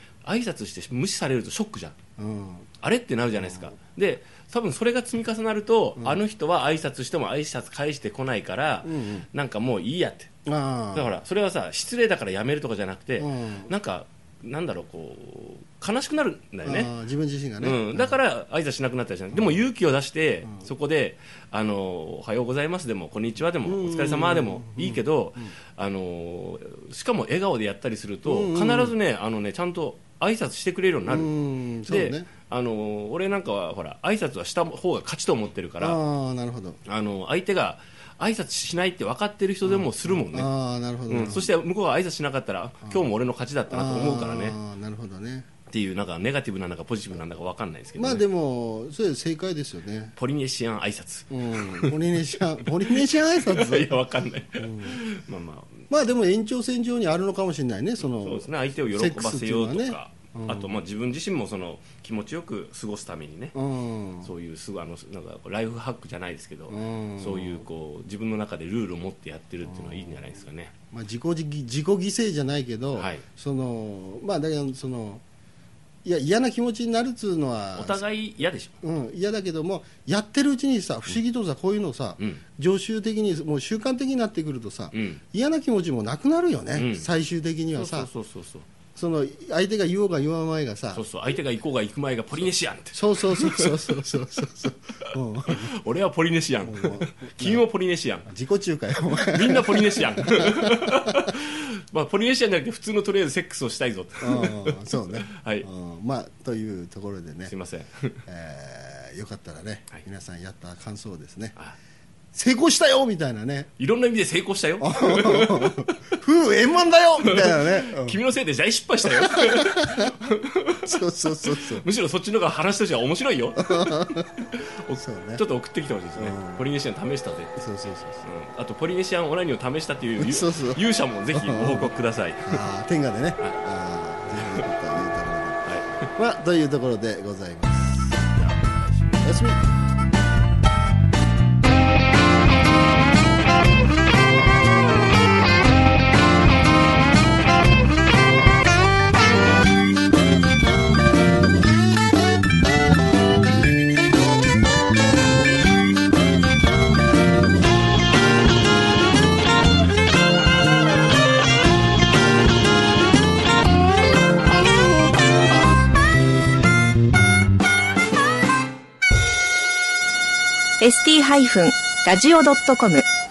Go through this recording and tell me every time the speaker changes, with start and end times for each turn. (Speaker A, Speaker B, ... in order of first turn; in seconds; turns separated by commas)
Speaker A: 0.2-1.9, Speaker B: 2.2-2.7, Speaker A: 2.8-10.3, Speaker B: 3.4-3.6, Speaker B: 8.8-9.2, Speaker B: 10.4-11.1, Speaker A: 10.9-16.9, Speaker B: 13.2-13.7, Speaker B: 16.6-18.1, Speaker A: 17.6-31.3, Speaker B: 23.6-25.0, Speaker B: 28.2-28.9, Speaker B: 31.1-32.3, Speaker A: 31.9-36.0, Speaker B: 35.8-36.8, Speaker A: 36.9-40.5, Speaker B: 39.6-41.5, Speaker A: 41.1-44.6, Speaker B: 43.7-45.5, Speaker A: 45.7-48.2, Speaker B: 48.0-50.1, Speaker A: 50.1-52.0, Speaker B: 51.3-54.0, Speaker A: 52.6-55.8, Speaker B: 54.6-55.0, Speaker B: 55.9-60.8, Speaker A: 58.1-63.6, Speaker B: 63.5-64.3, Speaker A: 64.2-70.7, Speaker B: 66.7-67.6, Speaker B: 69.6-70.2, Speaker B: 70.9-75.2, Speaker A: 72.9-73.2, Speaker B: 76.0-78.0, Speaker A: 77.8-78.8, Speaker B: 78.8-88.1, Speaker A: 84.9-85.2, Speaker A: 86.7-87.1, Speaker A: 87.7-88.7, Speaker B: 89.0-91.0, Speaker A: 90.9-94.0, Speaker B: 92.9-95.7, Speaker A: 95.5-98.3, Speaker B: 96.6-97.6, Speaker B: 98.3-101.3, Speaker A: 99.2-105.7, Speaker B: 104.2-107.5, Speaker A: 107.5-108.2, Speaker B: 108.3-111.5, Speaker B: 112.3-113.7, Speaker A: 113.8-116.1, Speaker B: 114.8-118.2, Speaker A: 117.2-127.6, Speaker B: 119.0-120.2, Speaker B: 120.8-121.8, Speaker B: 123.6-124.3, Speaker B: 125.0-125.4, Speaker B: 126.1-126.6, Speaker B: 127.6-128.2, Speaker A: 128.2-132.6, Speaker B: 130.2-130.8, Speaker B: 131.3-139.6, Speaker A: 135.7-136.0, Speaker C: 170.8-173.1